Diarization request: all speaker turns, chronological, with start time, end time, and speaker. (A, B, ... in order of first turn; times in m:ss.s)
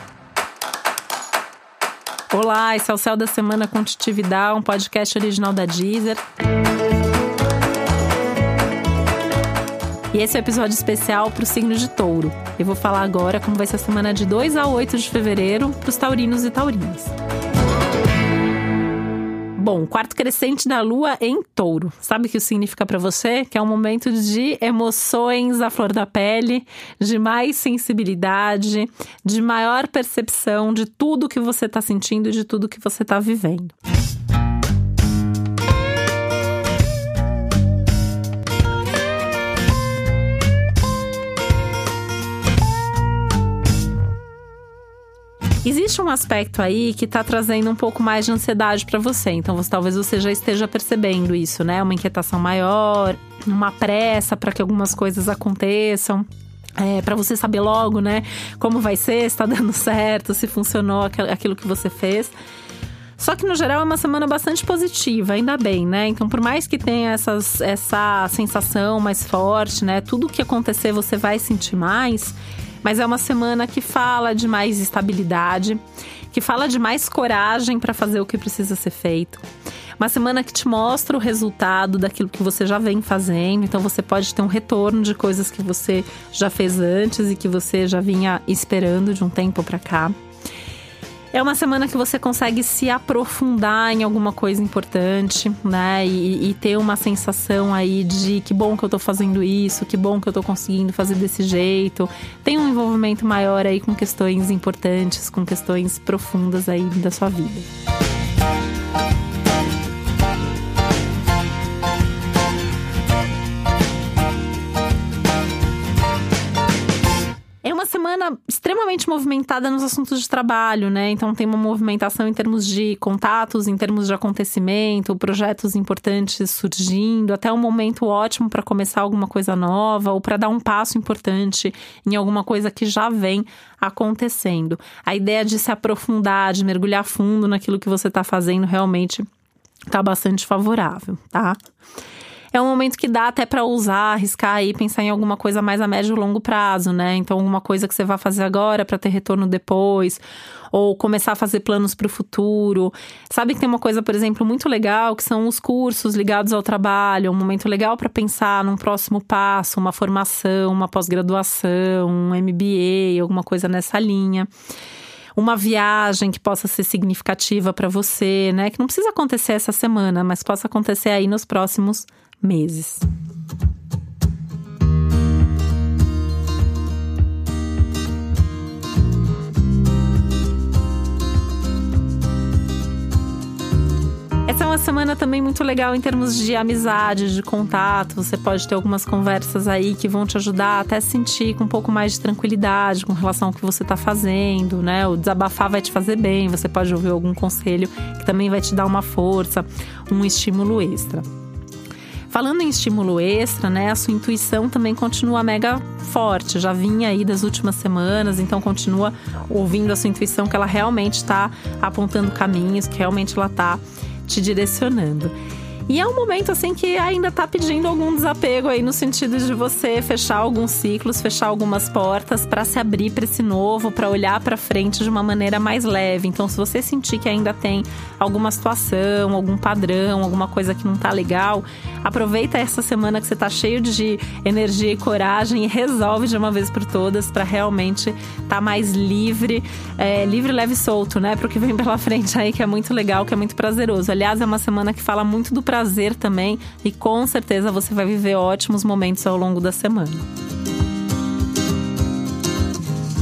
0:02.3-0:06.2 A
0:10.1-0:17.1 A
0:19.6-0:33.7 A
0:45.6-0:56.2 A
0:56.8-1:02.3 A
1:03.2-1:19.4 A
1:20.0-1:30.1 A
1:31.3-1:47.7 A
1:57.6-2:19.2 A
2:19.9-2:21.6 A
2:22.5-2:44.5 A
2:45.3-2:53.0 A
3:04.4-3:21.2 A
3:22.3-3:35.3 A
3:35.9-4:10.2 A